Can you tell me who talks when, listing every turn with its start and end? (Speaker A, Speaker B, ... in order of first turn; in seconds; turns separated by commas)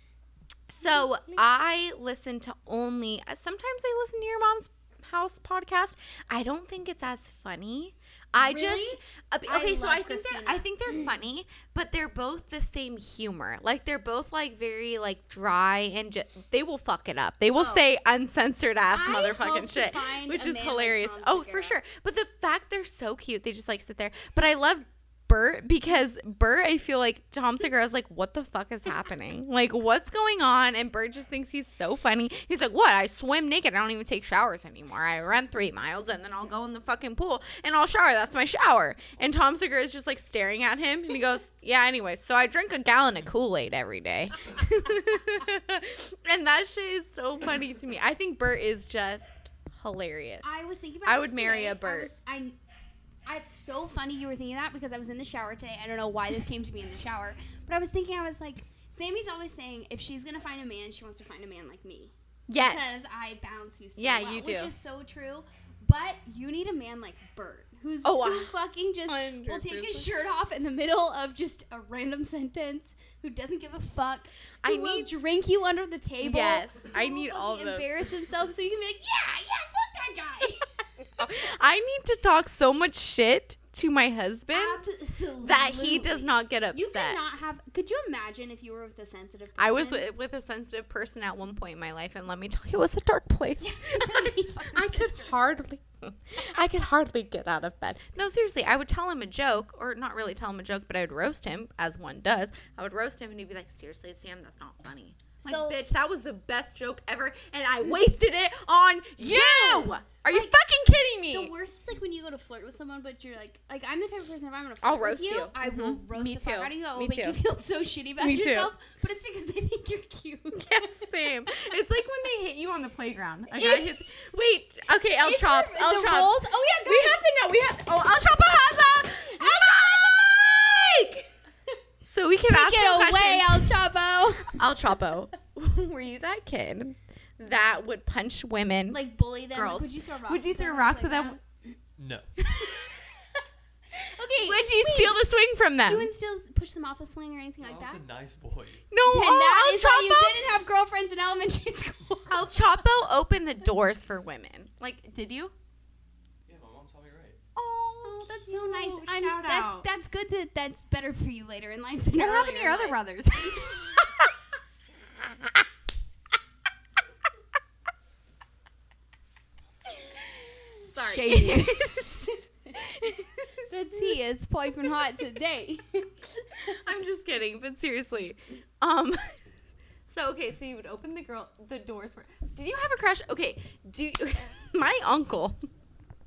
Speaker A: 0.7-52.1, Speaker B: 0.8-1.4, Speaker B: 8.4-10.7, Speaker B: 17.6-17.9, Speaker B: 18.9-21.8, Speaker B: 50.4-52.5, Speaker B: 53.2-80.8, Speaker A: 62.5-63.0, Speaker A: 64.0-64.7, Speaker A: 68.0-68.5, Speaker A: 69.1-70.1, Speaker A: 74.6-75.1, Speaker A: 76.2-77.9, Speaker A: 81.2-84.8, Speaker B: 84.5-90.1, Speaker A: 85.4-87.2, Speaker A: 89.6-111.5, Speaker B: 93.6-95.3, Speaker B: 105.4-105.8, Speaker B: 109.2-110.5, Speaker B: 111.3-121.1, Speaker A: 114.8-117.4, Speaker A: 118.2-118.7, Speaker A: 120.6-131.2, Speaker B: 123.5-124.0, Speaker B: 125.2-127.2, Speaker B: 128.5-129.9, Speaker A: 132.0-133.8, Speaker B: 132.5-134.6, Speaker A: 134.4-139.0, Speaker B: 138.9-141.8, Speaker A: 139.5-141.4, Speaker C: 142.0-142.3, Speaker A: 142.4-142.9, Speaker B: 142.6-143.0, Speaker B: 144.0-145.2, Speaker A: 144.4-146.1, Speaker B: 145.9-148.0, Speaker C: 147.6-148.8, Speaker A: 148.9-150.6, Speaker B: 149.1-152.6, Speaker A: 152.3-155.5, Speaker C: 156.5-157.4, Speaker A: 157.5-159.9, Speaker B: 158.0-162.9, Speaker A: 162.2-164.3, Speaker A: 170.8-173.5, Speaker B: 170.8-172.3, Speaker B: 173.7-176.7, Speaker A: 176.6-179.4, Speaker A: 180.1-185.7